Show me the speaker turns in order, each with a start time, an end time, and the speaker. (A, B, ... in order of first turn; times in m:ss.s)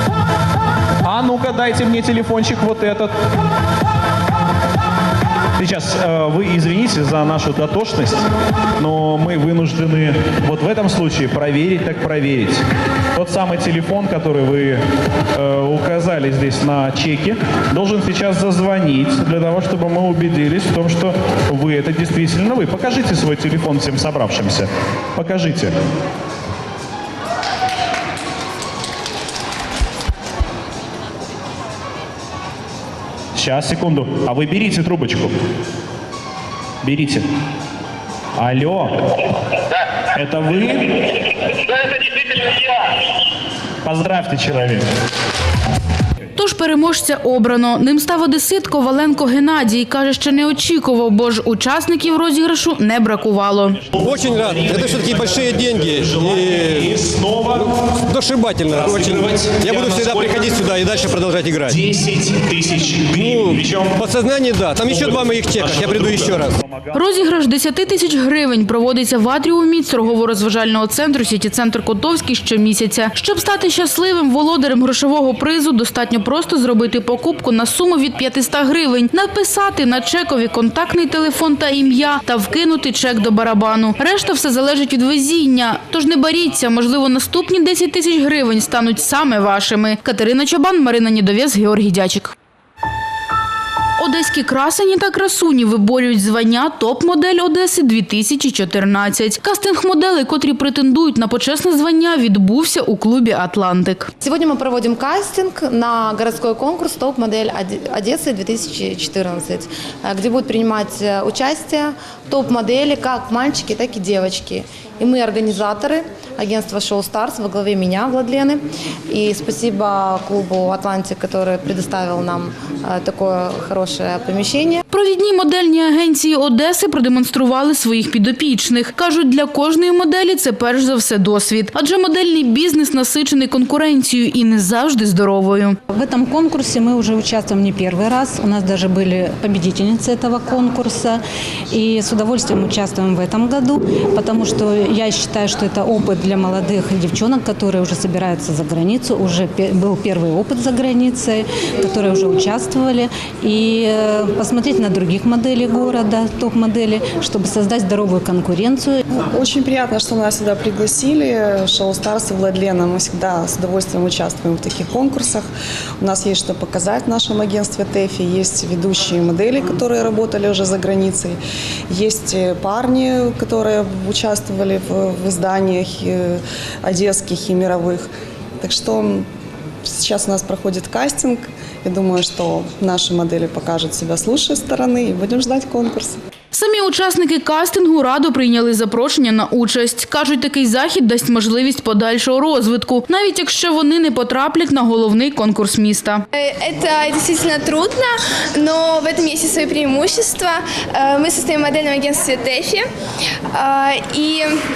0:01.0-0:03.1 A
0:05.6-0:08.2 A
0:08.8-0:12.6 A
0:13.1-0:14.8 A
0:15.4-0:25.8 A
0:33.3-0:35.3 A
0:36.8-0:37.3 A
0:38.4-0:39.0 A
0:40.1-0:41.0 A
0:43.8-0:44.9 A
0:46.4-0:53.8 B
0:54.0-0:56.9 C
0:58.1-1:01.8 C
0:58.9-1:00.5 A
1:01.7-1:03.8 A
1:03.2-1:06.5 C
1:05.0-1:06.9 A
1:06.9-1:32.3 B
1:34.0-1:44.1 B
1:44.2-1:58.6 D
1:59.1-2:04.7 D
2:04.9-2:15.8 B
2:15.9-2:21.2 E
2:21.7-2:39.0 E
2:39.3-2:45.5 F
2:46.0-2:59.3 F
2:59.8-3:06.2 F
3:06.5-3:16.2 B
3:16.3-3:22.8 G
3:23.5-3:24.5 G